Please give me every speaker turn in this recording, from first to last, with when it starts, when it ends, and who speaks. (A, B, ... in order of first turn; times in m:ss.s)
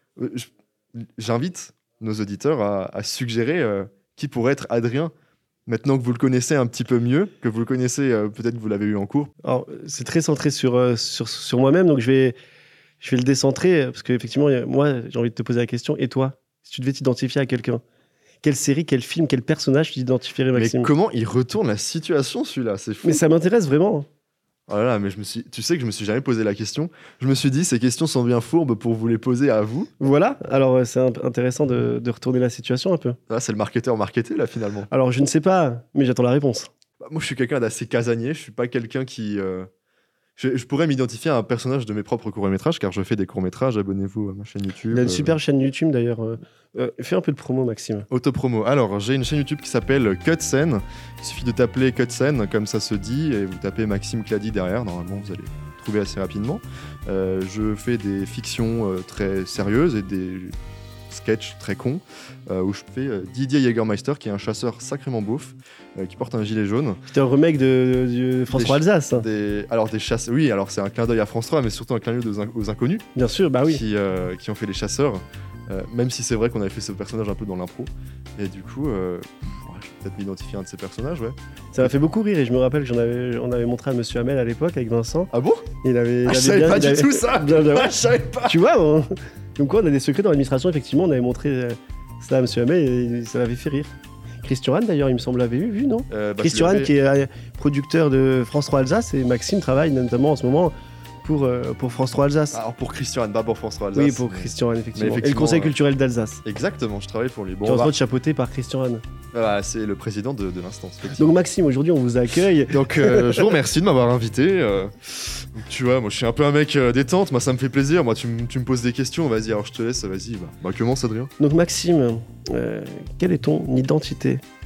0:00.2-0:05.1 A
0:05.7-0:09.3 A
0:09.4-0:12.4 B
0:13.0-0:17.8 B
0:18.4-0:20.9 B
0:20.5-0:23.2 A
0:23.0-0:24.1 B
0:24.7-0:29.9 A
0:30.0-0:33.2 B
0:33.3-0:34.9 A
0:34.9-0:36.7 B
0:37.0-0:39.7 A
0:40.4-0:45.4 A
0:44.9-0:48.1 B
0:48.1-1:00.5 A
1:01.1-1:07.0 A
1:07.1-1:09.2 B
1:08.5-1:13.0 A
1:13.2-1:13.8 B
1:13.7-1:21.9 A
1:21.7-1:25.3 B
1:25.3-1:25.7 A
1:25.8-1:42.6 B
1:26.2-1:28.6 A
1:36.1-1:36.9 A
1:42.5-1:45.7 A
1:43.9-1:46.4 B
1:46.4-1:47.9 A
1:47.6-1:49.0 B
1:49.3-1:51.3 A
1:51.1-1:53.5 B
1:52.7-2:01.3 A
2:01.4-2:04.4 B